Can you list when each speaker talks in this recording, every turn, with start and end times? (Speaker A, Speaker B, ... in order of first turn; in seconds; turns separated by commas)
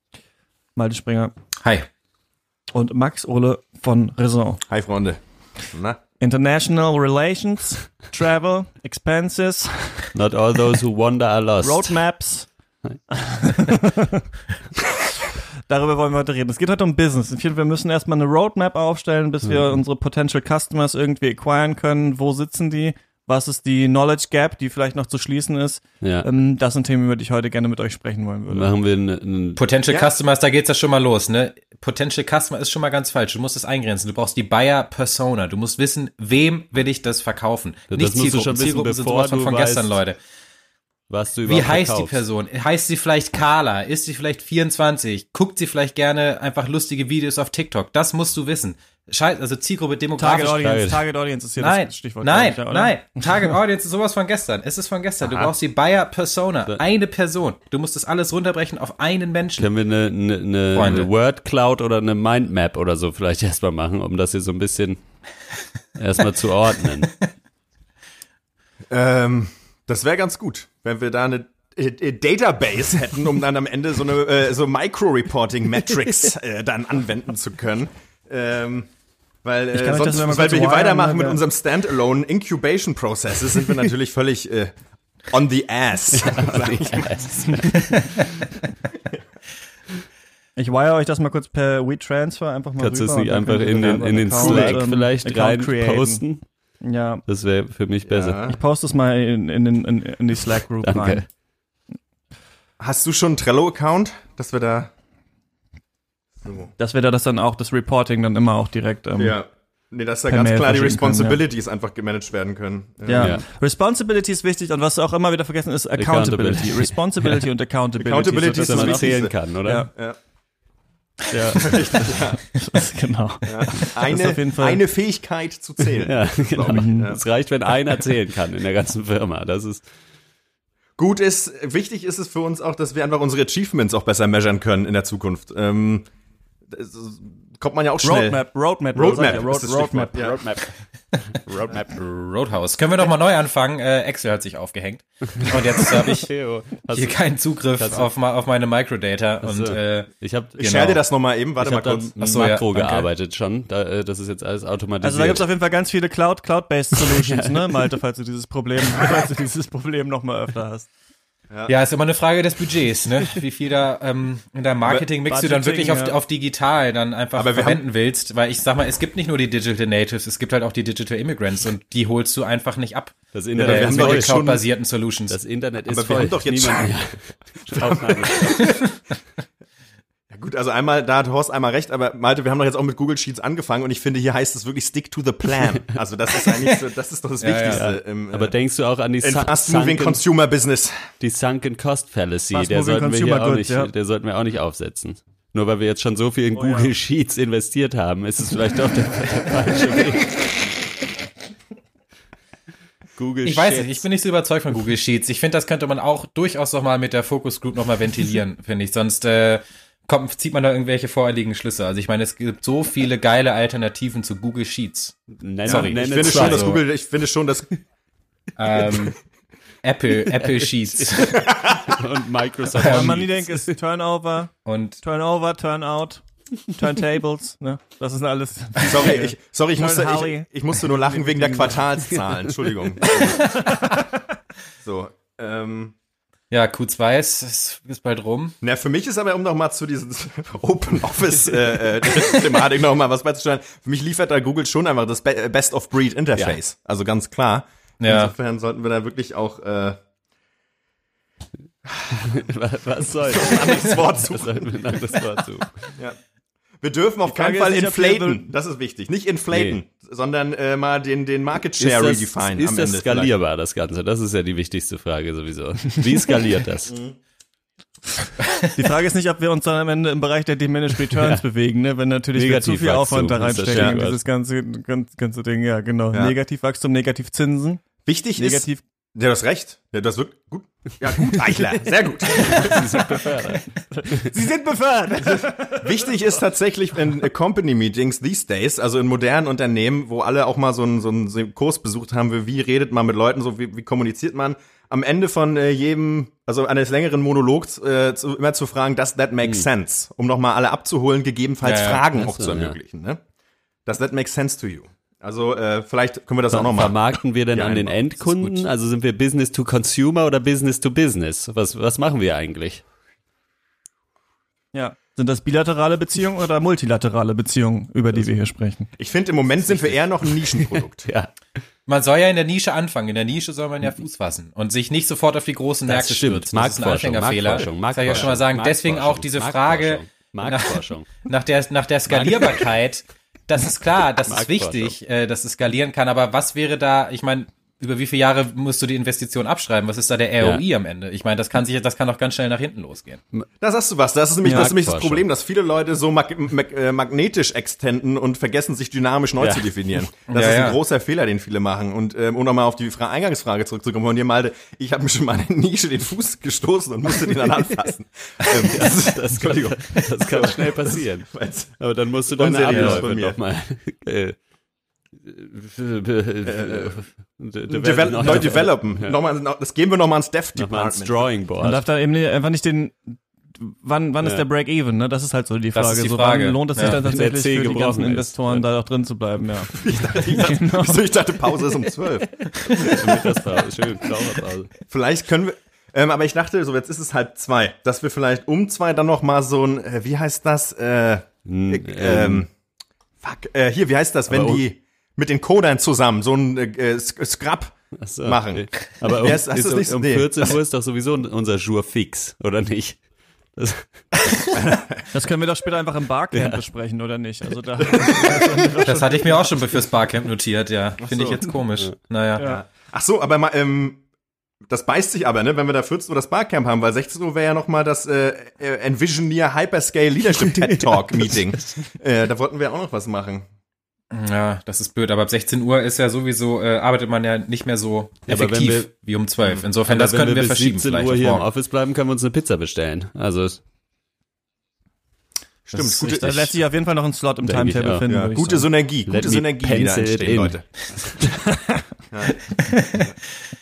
Speaker A: 0.8-1.3, Speaker A: 2.7-4.6, Speaker B: 4.7-6.0, Speaker A: 6.2-10.1, Speaker C: 10.1-12.0, Speaker A: 11.6-12.5, Speaker A: 13.1-14.2, Speaker A: 15.7-28.7, Speaker C: 28.5-29.6, Speaker D: 29.6-40.2, Speaker C: 37.9-40.0, Speaker C: 41.1-42.2, Speaker D: 41.5-50.6, Speaker A: 50.1-53.2, Speaker C: 50.4-51.0, Speaker D: 51.6-59.7, Speaker C: 55.2-55.5, Speaker C: 59.6-65.0, Speaker D: 60.7-61.1, Speaker C: 66.0-67.1, Speaker B: 68.9-78.9, Speaker B: 79.4-84.7, Speaker A: 79.7-81.4, Speaker B: 85.3-87.1, Speaker C: 86.1-88.1, Speaker D: 87.8-88.2, Speaker A: 90.5-96.2, Speaker C: 92.8-96.4, Speaker B: 94.4-94.8, Speaker A: 96.8-97.2, Speaker C: 97.3-98.4, Speaker B: 98.0-98.6, Speaker A: 98.5-101.2, Speaker C: 100.8-101.2, Speaker B: 102.8-104.9, Speaker B: 106.4-106.7, Speaker A: 106.8-109.4, Speaker B: 109.2-113.4, Speaker A: 110.3-111.4, Speaker A: 113.0-119.9, Speaker C: 116.0-117.5, Speaker B: 118.0-120.2, Speaker C: 118.4-119.9, Speaker C: 121.3-122.2, Speaker B: 121.5-122.4, Speaker A: 122.5-124.8, Speaker B: 123.4-127.2, Speaker C: 126.0-129.8, Speaker A: 126.7-127.1, Speaker B: 131.0-136.1, Speaker B: 136.7-140.4, Speaker A: 138.0-140.4, Speaker C: 140.2-140.7, Speaker C: 141.3-141.9, Speaker D: 141.9-146.3, Speaker C: 145.5-147.2, Speaker D: 146.9-150.1, Speaker C: 147.7-148.1, Speaker C: 149.4-150.7, Speaker B: 150.6-152.1, Speaker D: 150.6-151.0, Speaker C: 151.6-155.4, Speaker D: 152.2-153.1, Speaker A: 155.0-160.9, Speaker C: 157.0-157.8, Speaker D: 161.7-175.4, Speaker A: 165.3-166.2, Speaker B: 167.3-167.8, Speaker C: 173.3-174.6, Speaker B: 173.5-174.6, Speaker C: 175.3-178.8, Speaker B: 175.9-176.9, Speaker B: 177.7-178.8, Speaker B: 180.3-188.5, Speaker C: 186.5-186.8, Speaker D: 187.4-187.8, Speaker C: 187.6-190.2, Speaker B: 189.2-191.1, Speaker C: 191.2-200.6, Speaker A: 192.5-193.9, Speaker A: 196.6-196.9, Speaker C: 203.2-204.0, Speaker D: 203.4-216.8, Speaker C: 215.4-216.8, Speaker B: 215.7-217.7, Speaker D: 218.6-219.2, Speaker D: 219.8-221.5, Speaker C: 220.3-223.6, Speaker B: 221.3-221.9, Speaker D: 222.7-223.2, Speaker A: 222.8-231.4, Speaker D: 224.7-225.0, Speaker B: 228.8-233.6, Speaker B: 234.8-235.9, Speaker D: 236.5-238.6, Speaker B: 238.6-250.0, Speaker D: 248.0-248.3, Speaker C: 252.1-255.9, Speaker B: 253.3-254.8, Speaker B: 256.8-263.3, Speaker A: 257.2-258.4, Speaker C: 259.5-259.8, Speaker C: 261.8-266.9, Speaker B: 266.9-267.1, Speaker A: 268.7-277.8, Speaker C: 271.2-271.4, Speaker C: 272.3-274.2, Speaker B: 273.7-274.0, Speaker B: 278.0-283.2, Speaker A: 278.4-278.8, Speaker C: 282.3-283.6, Speaker A: 284.0-285.9, Speaker B: 285.5-303.2, Speaker D: 301.6-302.0, Speaker C: 302.1-302.8, Speaker B: 303.9-307.0, Speaker C: 306.5-312.8, Speaker B: 307.5-308.6, Speaker A: 314.7-318.9, Speaker B: 319.0-321.1, Speaker C: 319.7-321.3, Speaker D: 321.9-343.2, Speaker C: 325.9-331.1, Speaker C: 332.1-332.6, Speaker C: 334.2-334.9, Speaker B: 343.6-361.7, Speaker C: 344.4-345.2, Speaker C: 349.4-349.6, Speaker D: 350.3-350.8, Speaker C: 358.4-364.4, Speaker B: 362.3-363.4, Speaker D: 362.7-363.0, Speaker C: 365.2-369.2, Speaker B: 366.4-367.0, Speaker B: 367.7-371.3, Speaker C: 370.6-371.8, Speaker A: 371.6-381.0, Speaker D: 375.7-377.0, Speaker C: 376.8-378.7, Speaker B: 379.7-383.4, Speaker C: 382.6-384.7, Speaker B: 384.8-392.5, Speaker C: 391.4-392.4, Speaker B: 393.2-400.6, Speaker C: 394.3-394.6, Speaker C: 398.0-403.0, Speaker C: 403.6-403.9, Speaker B: 404.5-405.0, Speaker A: 405.1-409.6, Speaker C: 406.3-406.6, Speaker B: 407.9-408.7, Speaker D: 408.8-412.5, Speaker B: 411.0-411.5, Speaker B: 412.4-414.0, Speaker B: 414.7-423.4, Speaker D: 424.1-431.4, Speaker C: 428.3-428.9, Speaker C: 429.9-433.6, Speaker B: 435.6-436.5, Speaker D: 435.7-436.4, Speaker A: 436.0-438.7, Speaker C: 437.4-438.1, Speaker B: 438.1-440.6, Speaker C: 439.1-441.4, Speaker B: 442.1-442.4, Speaker D: 442.4-443.1